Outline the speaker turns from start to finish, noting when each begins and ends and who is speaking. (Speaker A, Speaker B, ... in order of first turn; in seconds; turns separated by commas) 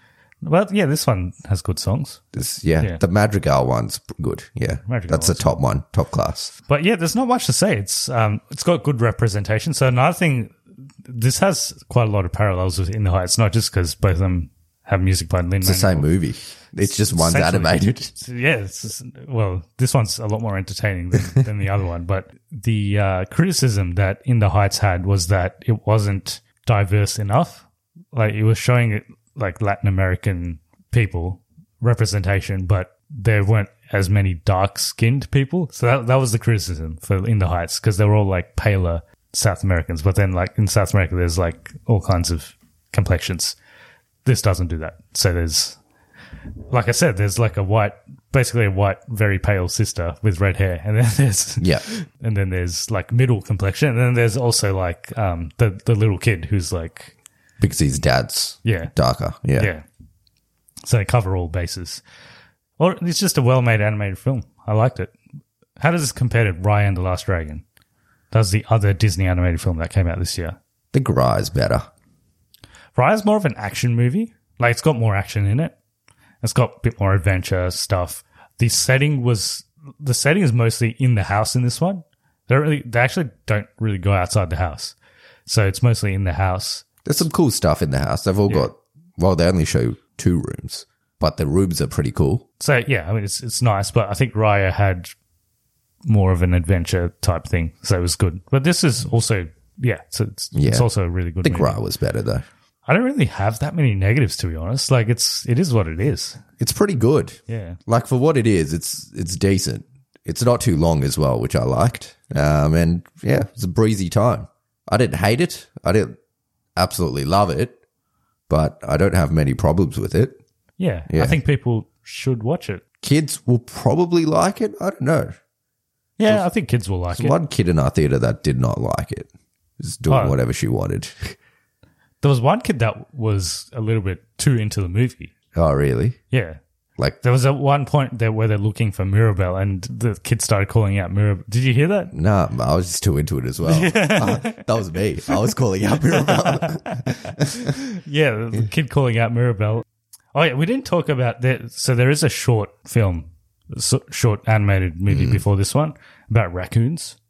Speaker A: 0.4-2.2, Speaker B: 2.3-6.5, Speaker A: 4.9-5.5, Speaker A: 6.7-16.1, Speaker B: 15.6-18.1, Speaker A: 16.8-43.6, Speaker A: 44.2-45.8, Speaker A: 46.7-57.1, Speaker B: 51.6-51.9, Speaker B: 57.6-59.7, Speaker A: 58.6-58.9, Speaker A: 59.6-59.8, Speaker A: 60.8-62.0, Speaker A: 62.8-65.1, Speaker A: 65.8-67.6, Speaker A: 68.3-70.6, Speaker B: 70.9-71.9, Speaker A: 73.0-75.8, Speaker A: 76.4-85.0, Speaker A: 85.5-86.9, Speaker B: 87.0-92.5, Speaker A: 92.6-95.1, Speaker A: 96.1-101.8, Speaker B: 100.5-100.9, Speaker B: 101.4-102.5, Speaker A: 102.9-106.4, Speaker B: 106.6-116.2, Speaker A: 107.5-107.8, Speaker B: 116.8-117.8, Speaker B: 118.5-120.4, Speaker A: 120.8-122.8, Speaker B: 121.1-121.4, Speaker B: 123.0-125.4, Speaker A: 126.2-127.4, Speaker B: 127.1-131.4, Speaker A: 130.1-130.4, Speaker A: 132.2-135.3, Speaker B: 135.6-136.2, Speaker A: 136.3-136.6, Speaker A: 137.2-142.1, Speaker B: 142.1-147.7, Speaker A: 143.7-144.6, Speaker A: 146.2-157.2, Speaker B: 155.1-155.4